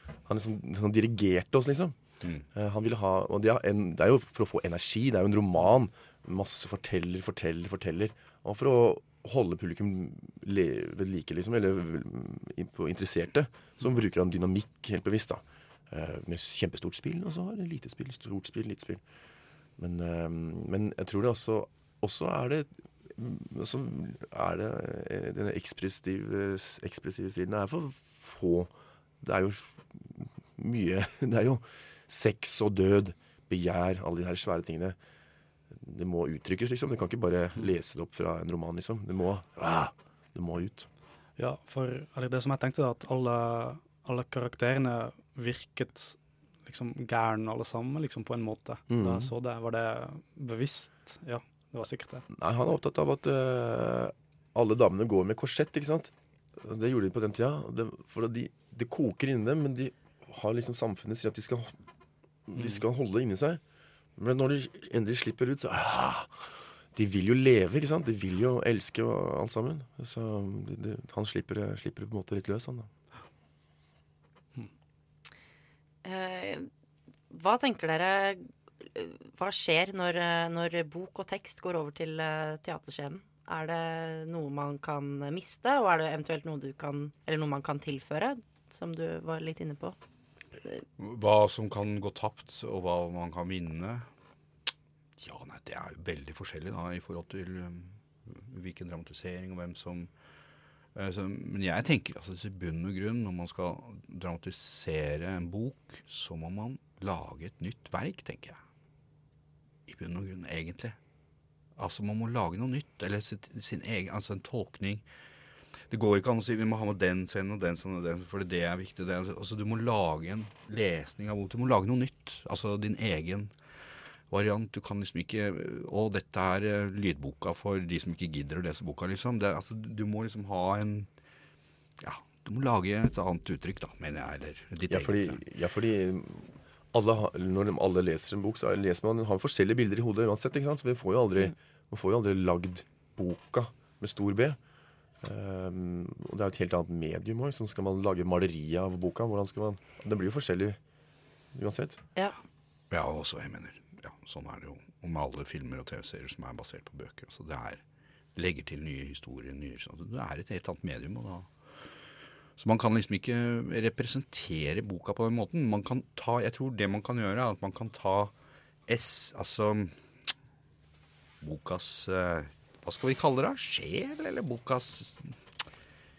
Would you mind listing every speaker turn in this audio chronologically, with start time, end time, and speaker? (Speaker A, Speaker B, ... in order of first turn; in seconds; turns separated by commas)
Speaker A: 0.2-2.0, Speaker A: 2.5-19.0, Speaker A: 19.8-35.0, Speaker A: 35.8-40.9, Speaker B: 41.4-52.2, Speaker A: 48.9-49.3, Speaker A: 52.3-61.7, Speaker A: 62.5-63.6, Speaker A: 64.2-72.9, Speaker C: 76.0-76.7, Speaker C: 77.3-90.0, Speaker D: 91.0-94.1, Speaker D: 95.2-100.1, Speaker D: 100.9-108.6, Speaker D: 109.9-111.0, Speaker D: 111.8-115.0, Speaker D: 115.9-123.5, Speaker D: 124.3-131.1, Speaker D: 132.0-135.4, Speaker A: 134.9-144.6, Speaker A: 145.2-150.8, Speaker A: 151.5-152.0, Speaker D: 152.9-157.8, Speaker D: 158.3-161.5, Speaker D: 162.6-168.3, Speaker D: 168.9-170.3, Speaker D: 171.4-175.4